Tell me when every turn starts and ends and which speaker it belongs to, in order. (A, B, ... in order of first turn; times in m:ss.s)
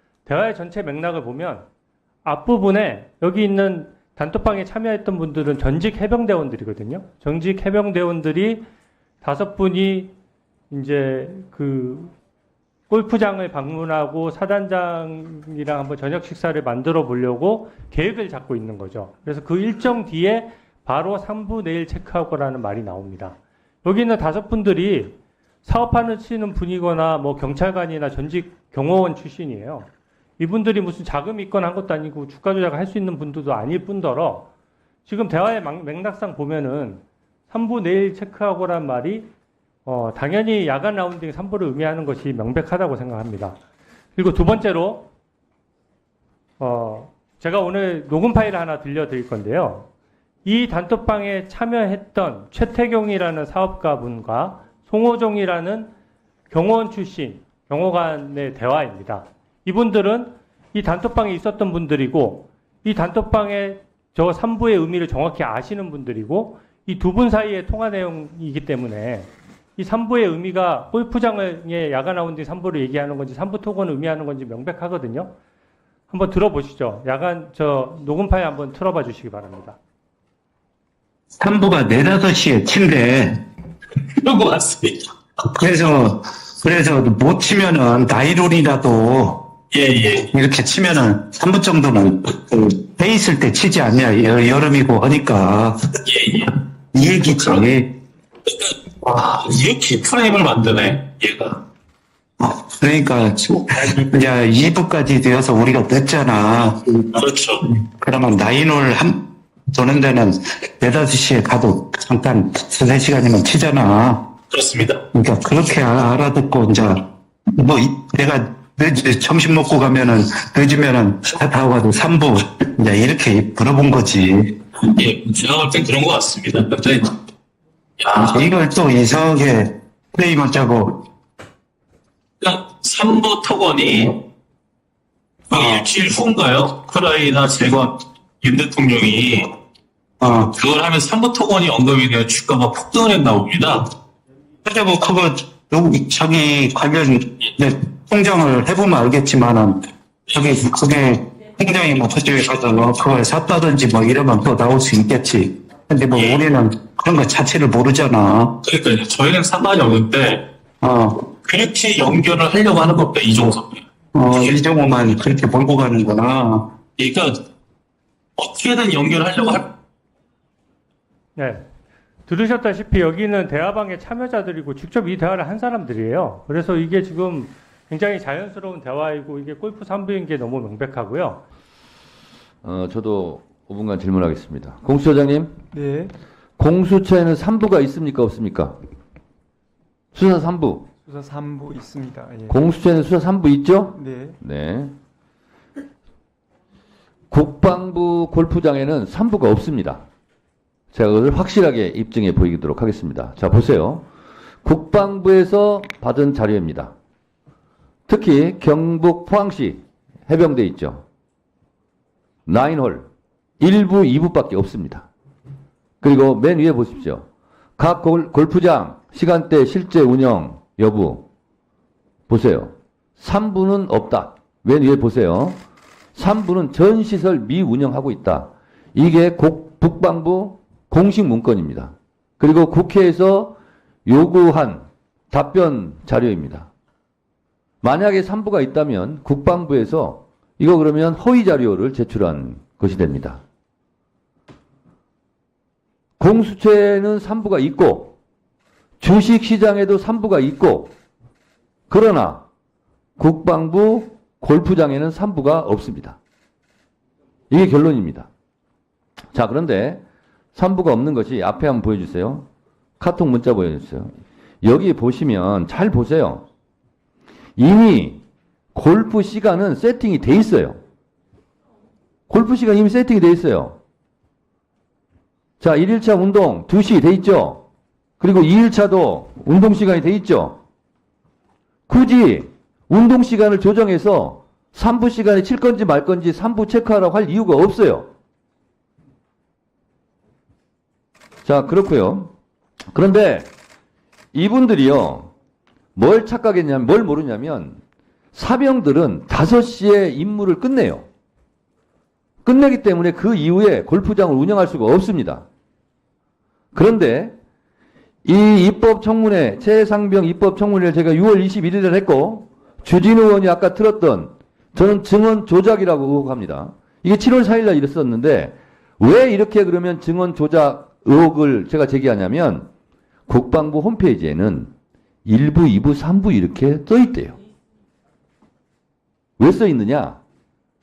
0:00.3-0:01.7 A
0:02.2-0:08.6 A
0:09.2-0:10.1 A
0:10.7-0:12.1 A
0:12.9-0:34.5 A
0:35.1-0:39.3 A
0:39.8-0:43.6 A
0:44.2-0:45.1 A
0:46.6-0:49.9 A
0:50.4-0:55.9 A
0:56.5-1:15.3 A
1:16.1-1:19.8 A
1:21.4-1:23.3 B
1:24.2-1:25.1 C
1:25.6-1:29.4 B
1:29.7-1:30.3 C
1:30.3-1:35.8 B
1:36.0-1:36.6 C
1:36.9-1:37.9 B
1:37.3-1:37.6 C
1:38.5-1:41.6 C
1:42.4-1:47.0 B
1:47.1-1:47.6 C
1:48.0-1:49.2 B
1:49.7-1:54.2 B
1:54.5-1:55.0 C
1:55.1-1:57.0 B
1:57.6-2:04.5 B
2:04.8-2:07.1 C
2:08.0-2:08.5 C
2:08.2-2:10.9 B
2:12.4-2:14.2 C
2:15.5-2:19.5 C
2:15.5-2:15.8 B
2:20.2-2:20.5 B
2:20.3-2:23.9 C
2:24.6-2:29.8 B
2:30.4-2:38.5 B
2:36.1-2:36.4 C
2:38.6-2:40.4 C
2:40.8-2:41.1 B
2:41.4-2:43.8 C
2:44.1-2:46.6 B
2:44.3-2:44.6 C
2:47.0-2:47.4 C
2:48.4-2:49.7 C
2:51.4-2:51.6 A
2:52.3-3:01.4 A
3:02.6-3:05.6 D
3:05.7-3:06.1 E
3:06.6-3:08.8 D
3:10.1-3:10.9 D
3:11.0-3:12.6 E
3:12.5-3:15.0 D
3:14.0-3:14.4 E
3:17.3-3:20.0 D
3:20.9-3:24.1 D
3:24.6-3:27.0 D
3:28.1-3:31.0 D
3:32.5-3:33.1 D
3:33.6-3:35.1 D
3:36.0-3:37.3 D
3:37.8-3:41.3 D
3:42.3-3:45.6 D
3:46.2-3:56.7 D
3:57.8-4:03.4 D
4:06.2-4:08.2 D
4:09.0-4:10.9 D
4:11.9-4:12.5 D
4:13.2-4:16.2 D
4:17.5-4:18.3 D
4:19.3-4:20.0 D
4:20.6-4:22.5 D
4:23.0-4:26.4 D
4:27.6-4:28.2 D
4:28.7-4:30.8 D
4:32.3-4:33.8 D
4:35.6-4:37.6 D
4:38.2-4:40.6 D
4:41.9-4:48.1 D
4:51.4-4:52.3 D
4:52.9-4:53.5 D
4:54.3-4:55.3 D
4:56.0-4:57.8 D
4:58.3-5:01.1 D
5:02.4-5:05.4 D
5:06.7-5:07.4 D
5:08.2-5:22.7 D
5:23.3-5:24.7 D
5:25.2-5:27.4 D
5:29.4-5:30.2 D